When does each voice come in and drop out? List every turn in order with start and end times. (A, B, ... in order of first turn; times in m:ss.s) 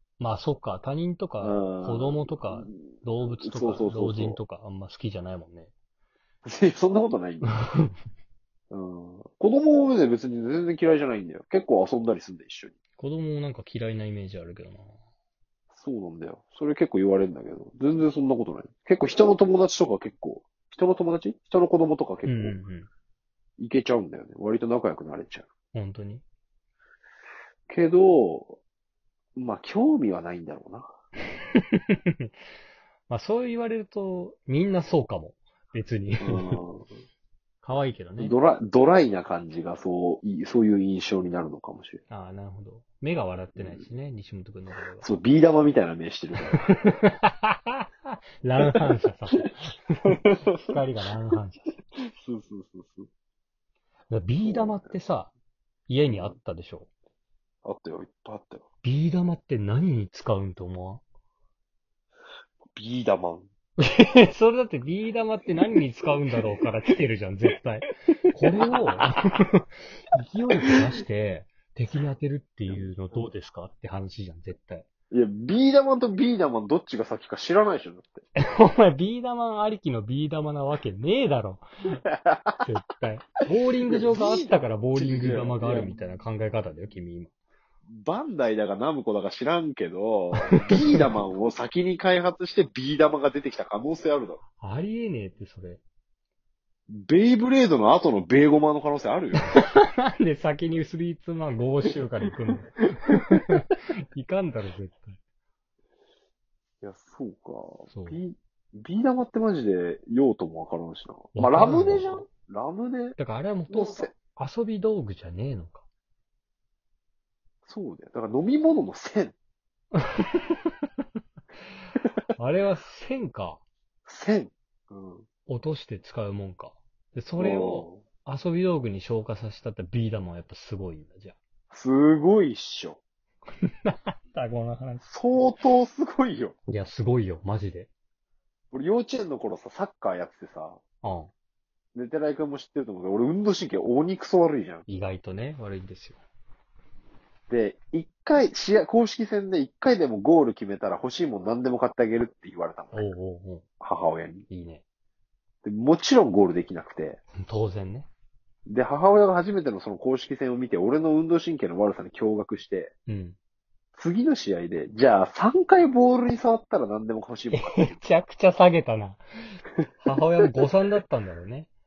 0:00.2-0:05.7 A
0:01.4-0:04.4 B
0:06.4-0:07.5 B
0:07.4-0:08.0 A
0:08.7-0:12.8 B
0:13.0-0:15.0 A
0:15.7-0:22.6 B
0:22.3-0:22.9 A
0:23.6-0:25.5 B
0:25.7-0:26.2 A
0:27.7-0:28.6 B
0:29.4-0:30.9 B
0:31.6-0:32.3 A
0:33.1-0:36.6 A
0:36.2-0:36.9 B
0:37.6-0:38.4 A
0:38.2-0:42.0 B
0:42.1-0:45.0 A
0:43.6-0:43.9 B
0:45.0-0:47.0 B
0:46.5-0:51.8 A
0:50.1-0:50.8 B
0:52.2-0:53.1 B
0:54.1-0:55.3 A
0:54.4-0:54.8 B
0:55.9-0:56.9 A
0:56.1-0:56.4 B
0:57.6-0:58.6 B
0:58.8-1:01.0 A
1:02.7-1:03.5 B
1:03.8-1:14.9 A
1:08.5-1:09.1 B
1:12.7-1:13.2 B
1:15.1-1:18.2 B
1:18.4-1:21.6 A
1:22.1-1:22.7 B
1:22.6-1:27.3 A
1:23.9-1:26.0 B
1:27.9-1:34.4 B
1:30.5-1:31.1 A
1:34.6-1:35.8 A
1:36.9-1:39.6 B
1:39.5-1:45.2 A
1:42.0-1:42.7 B
1:46.8-1:53.2 B
1:47.9-1:48.2 A
1:51.4-1:52.2 A
1:53.2-1:55.8 A
1:53.7-1:54.1 B
1:57.7-1:59.4 B
2:00.0-2:00.7 A
2:02.4-2:03.6 A
2:04.1-2:05.3 B
2:05.5-2:11.4 A
2:07.4-2:08.0 B
2:11.7-2:13.0 B
2:13.6-2:15.1 A
2:15.0-2:16.6 B
2:16.7-2:17.9 A
2:18.7-2:20.8 B
2:21.0-2:21.3 A
2:22.0-2:24.9 B
2:24.9-2:26.2 A
2:27.5-2:33.1 B
2:32.9-2:33.6 A
2:33.8-2:34.5 B
2:34.5-2:34.8 A
2:35.6-2:37.2 B
2:37.4-2:38.1 A
2:38.7-2:42.9 B
2:43.1-2:43.4 A
2:44.0-2:48.0 B
2:47.5-2:51.7 A